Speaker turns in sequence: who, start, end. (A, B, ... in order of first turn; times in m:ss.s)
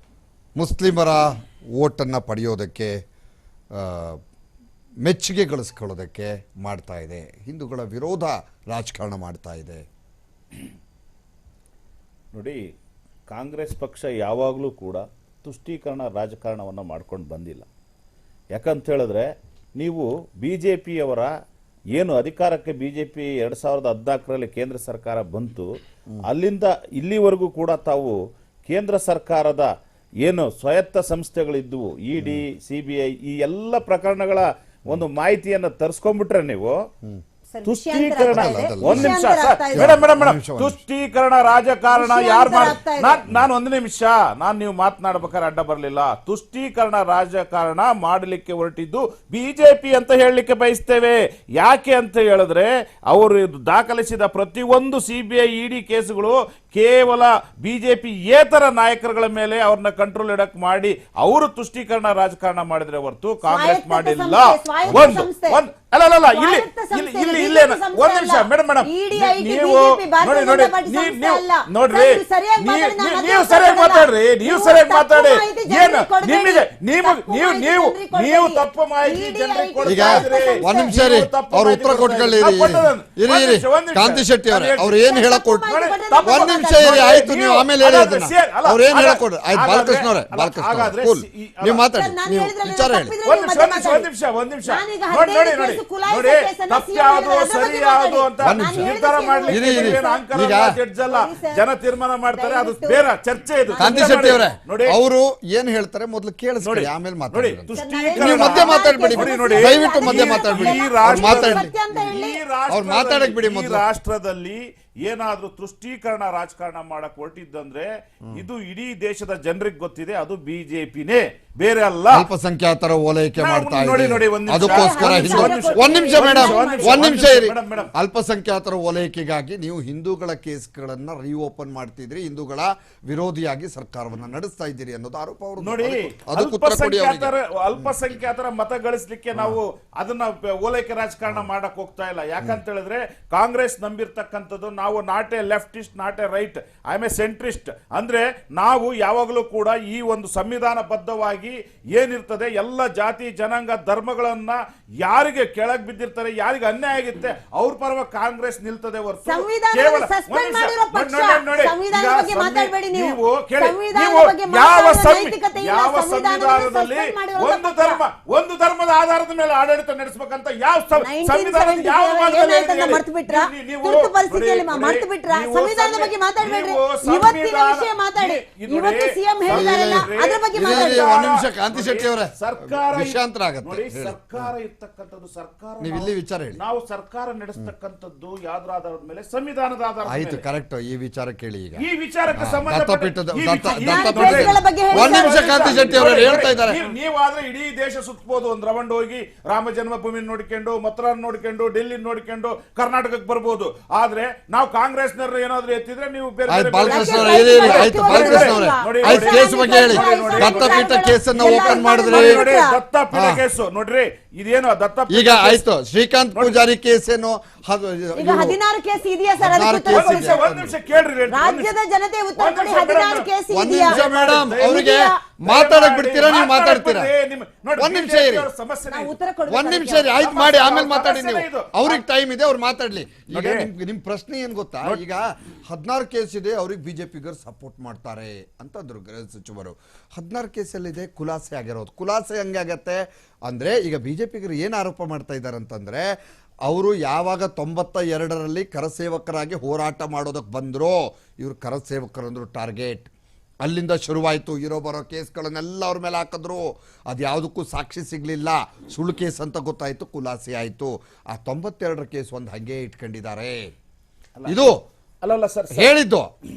0:00.6-0:03.0 A
0:03.7-0:04.2 A
0:05.0-0:09.8 A
0:12.3-0:12.6 B
0:13.3-0:17.7 B
0:18.6-0:21.3 B
0:22.0-0:25.7 B
0:26.2-0:29.7 B
0:30.2-0:36.8 B
0:32.2-0:32.4 A
0:37.5-0:40.0 C
0:37.6-1:25.0 B
0:38.3-0:39.2 A
0:39.7-0:40.8 A
0:41.9-0:43.2 C
1:03.4-1:05.6 C
1:06.3-1:21.0 C
1:19.8-1:25.7 A
1:25.0-1:27.3 C
1:25.7-1:31.9 B
1:26.2-1:33.1 A
1:31.8-1:34.1 C
1:33.2-1:45.0 B
1:34.7-1:40.3 C
1:38.4-1:40.8 A
1:41.1-1:41.6 C
1:42.3-1:43.0 C
1:43.7-1:44.4 C
1:43.8-1:51.7 A
1:46.6-2:02.3 B
1:47.7-1:52.4 C
1:52.7-1:53.8 A
2:02.1-2:17.9 A
2:03.4-2:07.9 B
2:04.6-2:07.2 C
2:15.6-3:10.4 B
2:39.3-2:48.0 C
2:51.0-3:01.2 C
2:59.5-3:04.5 A
3:05.8-3:06.6 A
3:10.1-3:16.8 A
3:11.8-3:35.6 B
3:13.6-3:16.1 C
3:26.5-3:32.4 A
3:26.8-3:32.8 C
3:33.1-3:33.4 A
3:35.1-3:38.6 A
3:36.4-3:36.6 B
3:38.2-3:40.4 C
3:39.4-3:40.7 A
3:39.9-3:41.7 B
3:41.3-3:45.2 C
3:42.4-3:44.9 B
3:43.5-3:47.1 A
3:45.4-3:49.2 B
3:47.8-3:48.5 A
3:48.9-3:50.2 C
3:49.5-4:06.1 A
3:50.1-3:52.0 B
3:53.3-3:53.7 B
4:06.7-4:13.1 A
4:13.6-4:23.7 A
4:24.4-4:25.9 B
4:24.4-4:24.8 A
4:25.7-4:26.3 A